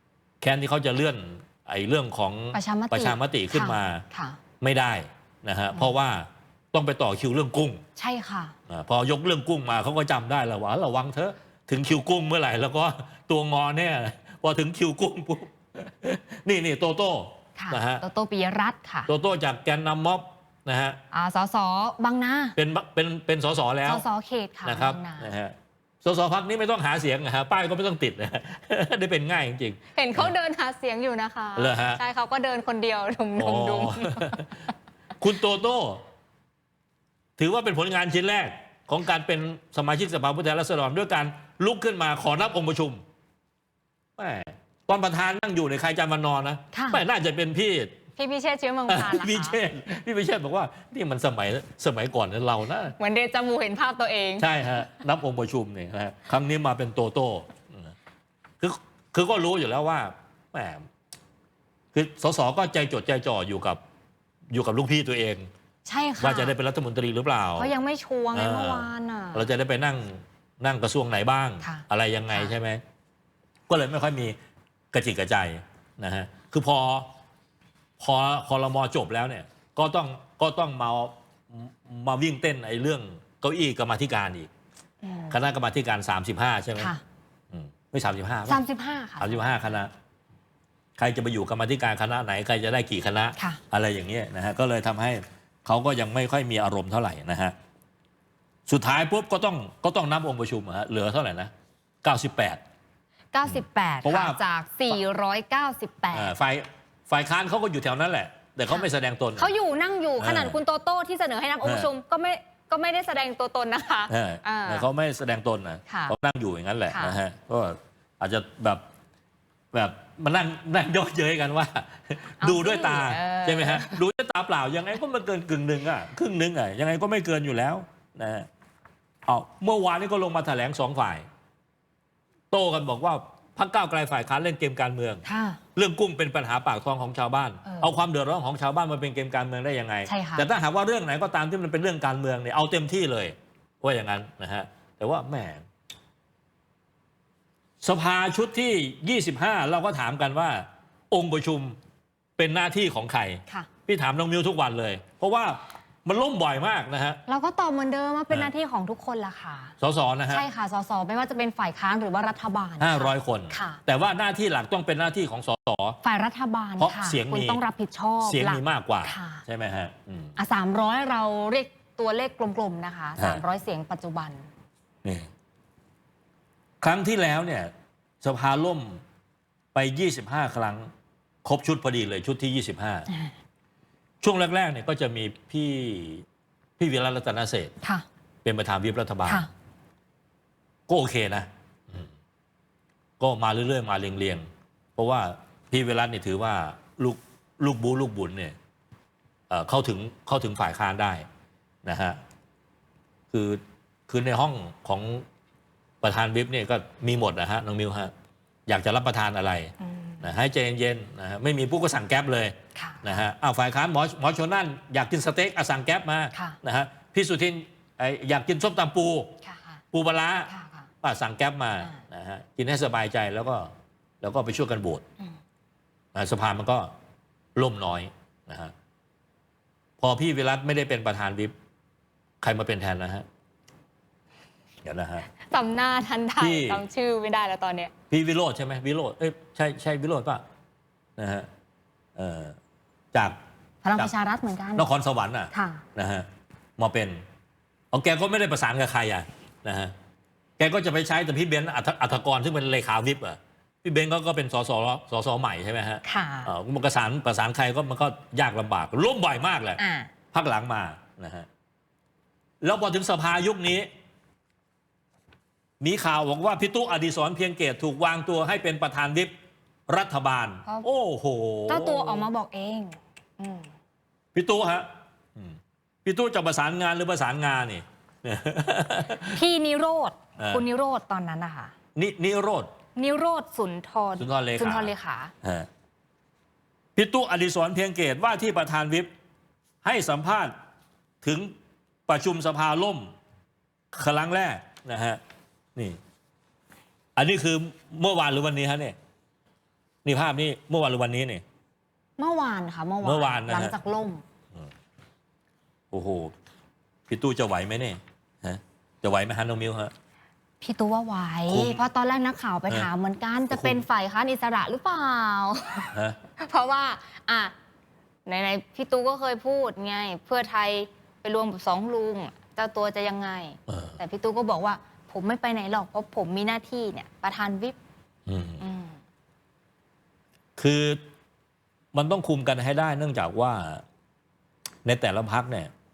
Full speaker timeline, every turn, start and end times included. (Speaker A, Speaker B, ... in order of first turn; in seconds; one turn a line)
Speaker A: 0.4-4.0
Speaker B: 2.5-4.4
Speaker A: 4.6-7.8
Speaker B: 8.0-8.6
Speaker A: 8.7-18.0
Speaker B: 17.6-19.1
Speaker A: 19.1-21.0
Speaker B: 21.1-22.6
Speaker A: 22.6-24.0
Speaker B: 23.9-25.3
Speaker A: 24.6-30.3
Speaker B: 29.9-34.5
Speaker A: 31.6-32.0
Speaker A: 33.4-34.6
Speaker A: 35.2-36.0
Speaker A: 37.4-43.0
Speaker A: 44.2-48.0
Speaker B: 46.7-47.0
Speaker B: 48.2-49.6
Speaker A: 48.9-53.0
Speaker B: 53.0-54.5
Speaker A: 54.4-57.9
Speaker A: 58.6-60.9
Speaker A: 61.9-63.8
Speaker A: 64.5-65.5
Speaker B: 65.8-66.5
Speaker A: 66.2-67.7
Speaker B: 67.6-69.5
Speaker A: 68.3-72.8
Speaker B: 71.6-72.6
Speaker A: 73.7-74.4
Speaker A: 74.9-77.1
Speaker A: 78.0-84.5
Speaker B: 85.0-85.4
Speaker A: 85.3-86.9
Speaker B: 86.8-87.0
Speaker A: 87.5-88.6
Speaker B: 88.5-89.7
Speaker A: 89.2-89.9
Speaker A: 91.0-97.5
Speaker A: 98.7-101.5
Speaker A: 102.0-102.6
Speaker B: 103.3-106.3
Speaker A: 103.5-104.4
Speaker A: 106.1-109.5
Speaker B: 109.4-114.9
Speaker A: 110.2-110.6
Speaker A: 111.6-111.9
Speaker A: 114.1-118.8
Speaker B: 115.9-116.2
Speaker B: 116.9-117.2
Speaker A: 119.7-128.5
Speaker B: 122.4-124.0
Speaker A: 129.3-131.3
Speaker A: 132.5-135.2
Speaker B: 135.2-135.6
Speaker A: 135.8-145.6
Speaker B: 137.7-137.9
Speaker B: 140.1-140.5
Speaker A: 147.8-151.8
Speaker A: 152.4-157.2
Speaker B: 157.3-159.7
Speaker A: 159.8-160.5
Speaker B: 160.3-163.8
Speaker A: 162.8-166.0
Speaker B: 166.0-169.4
Speaker A: 166.8-167.6
Speaker A: 168.2-170.3
Speaker B: 170.4-174.4
Speaker A: 175.0-175.3
Speaker A: 176.8-179.0
Speaker A: 179.8-180.9
Speaker A: 181.4-183.1
Speaker B: 183.1-183.3
Speaker A: 184.2-186.2
Speaker A: 186.8-187.7
Speaker A: 188.4-189.4
Speaker A: 190.9-192.1
Speaker A: 193.2-198.6
Speaker A: 199.5-201.3
Speaker A: 201.8-202.2
Speaker A: 203.3-205.2
Speaker A: 206.0-208.1
Speaker A: 208.7-219.3
Speaker B: 209.8-210.3
Speaker B: 212.8-213.0
Speaker B: 216.3-216.6
Speaker B: 219.4-219.8
Speaker A: 219.9-220.5
Speaker B: 220.5-220.9
Speaker A: 221.0-225.0
Speaker A: 226.2-226.9
Speaker A: 227.6-228.7
Speaker A: 230.0-231.5
Speaker A: 232.4-233.3
Speaker A: 234.8-235.3
Speaker B: 235.5-237.9
Speaker A: 236.4-236.8
Speaker A: 238.1-240.4
Speaker A: 241.2-241.5
Speaker A: 242.2-242.6
Speaker B: 243.8-244.9
Speaker A: 244.8-246.3
Speaker B: 245.5-245.8
Speaker A: 246.8-247.2
Speaker A: 247.9-249.9
Speaker A: 250.6-259.8
Speaker B: 256.0-256.5
Speaker B: 259.8-260.1
Speaker A: 260.3-261.5
Speaker A: 262.6-263.9
Speaker A: 265.8-269.3
Speaker A: 269.9-272.3
Speaker B: 271.7-273.7
Speaker A: 274.4-279.4
Speaker B: 279.3-281.7
Speaker A: 280.4-280.6
Speaker A: 281.9-282.7
Speaker B: 283.0-285.3
Speaker A: 284.2-284.9
Speaker A: 285.4-285.7
Speaker A: 287.0-289.1
Speaker A: 289.8-290.5
Speaker A: 291.2-291.5
Speaker A: 292.1-293.1
Speaker A: 293.9-295.2
Speaker A: 297.2-299.0
Speaker A: 300.1-301.4
Speaker B: 302.2-304.2
Speaker A: 303.0-303.8
Speaker A: 305.9-306.3
Speaker A: 307.1-309.9
Speaker B: 310.6-317.5
Speaker A: 311.5-311.8
Speaker A: 313.5-313.8
Speaker B: 318.3-327.8
Speaker A: 323.7-324.0
Speaker A: 328.3-328.6
Speaker B: 328.6-329.0
Speaker A: 330.6-331.0
Speaker A: 331.9-333.8
Speaker A: 334.9-335.7